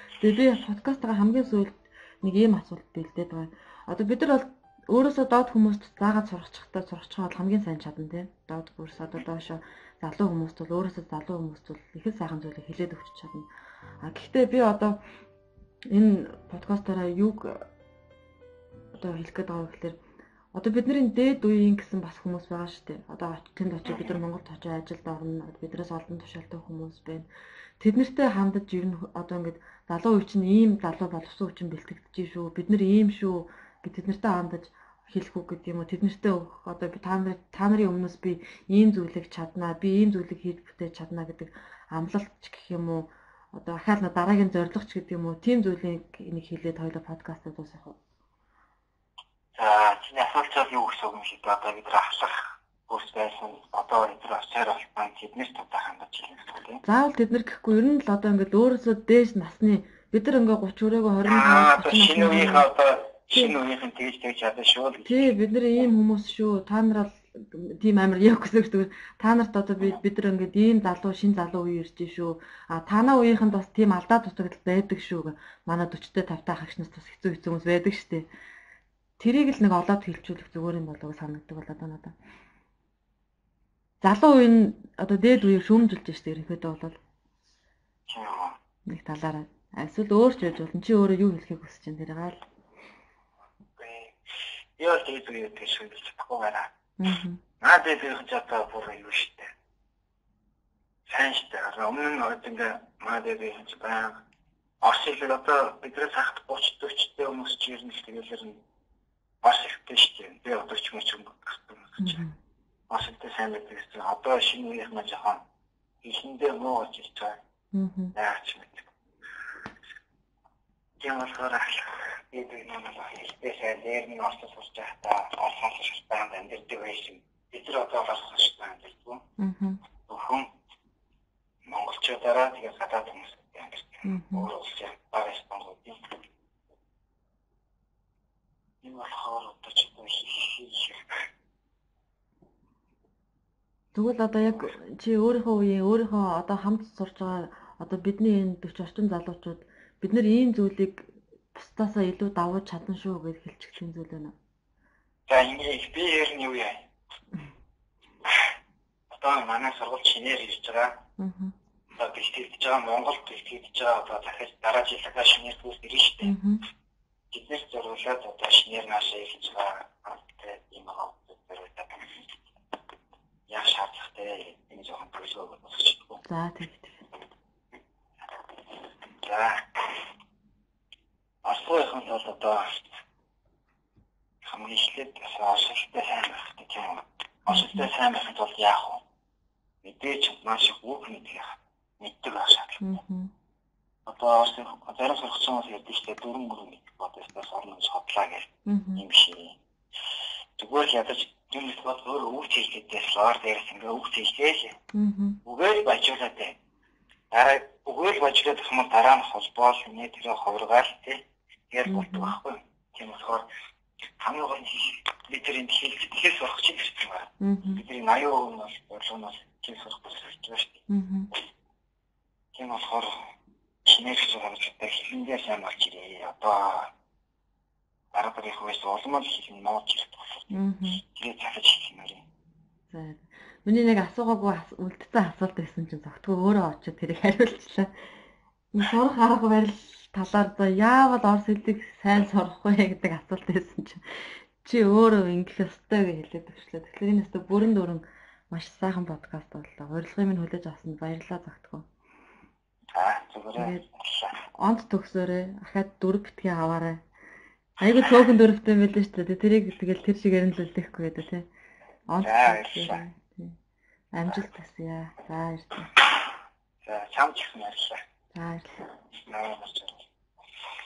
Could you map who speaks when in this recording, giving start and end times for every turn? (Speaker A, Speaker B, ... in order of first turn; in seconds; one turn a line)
Speaker A: 0.2-13.5
Speaker A: 14.0-15.0
Speaker A: 15.9-17.7
Speaker A: 18.9-20.0
Speaker A: 20.5-27.3
Speaker B: 23.9-24.2
Speaker A: 27.8-48.0
Speaker B: 49.6-56.8
Speaker A: 56.8-62.7
Speaker B: 61.2-65.3
Speaker A: 65.1-78.3
Speaker A: 79.2-82.1
Speaker A: 84.0-87.0
Speaker B: 88.1-88.6
Speaker A: 88.9-92.4
Speaker B: 93.8-94.1
Speaker B: 94.8-96.7
Speaker A: 97.0-97.4
Speaker B: 97.6-99.5
Speaker B: 101.1-104.2
Speaker B: 104.8-108.6
Speaker B: 109.4-112.2
Speaker A: 112.0-112.4
Speaker B: 112.9-115.4
Speaker B: 116.0-117.4
Speaker A: 117.7-118.1
Speaker B: 118.1-118.9
Speaker B: 121.0-129.2
Speaker A: 129.4-129.8
Speaker B: 130.1-130.5
Speaker B: 131.6-136.1
Speaker A: 134.1-134.5
Speaker B: 138.8-141.2
Speaker A: 143.9-154.3
Speaker B: 155.3-156.8
Speaker B: 159.1-161.0
Speaker A: 161.2-161.6
Speaker B: 161.9-166.4
Speaker A: 166.2-166.6
Speaker B: 167.3-172.2
Speaker B: 173.5-176.2
Speaker A: 176.2-177.0
Speaker B: 179.1-180.0
Speaker B: 181.4-182.8
Speaker B: 184.4-189.0
Speaker A: 187.5-187.9
Speaker B: 189.8-192.8
Speaker A: 192.8-193.3
Speaker B: 194.1-199.6
Speaker A: 198.7-199.1
Speaker B: 200.6-204.8
Speaker A: 204.9-205.4
Speaker B: 205.4-206.6
Speaker B: 207.3-213.5
Speaker A: 211.9-212.4
Speaker B: 214.0-220.8
Speaker A: 217.4-217.8
Speaker A: 220.9-221.3
Speaker B: 222.5-223.3
Speaker B: 223.8-226.9
Speaker B: 228.1-230.5
Speaker A: 230.5-231.0
Speaker B: 231.0-232.2
Speaker A: 232.9-237.9
Speaker A: 238.7-251.9
Speaker B: 252.9-254.4
Speaker A: 253.6-253.9
Speaker A: 254.6-257.0
Speaker A: 257.8-261.5
Speaker A: 262.1-263.6
Speaker B: 262.2-263.0
Speaker A: 264.1-265.9
Speaker B: 266.8-268.0
Speaker A: 268.3-268.8
Speaker B: 269.2-270.1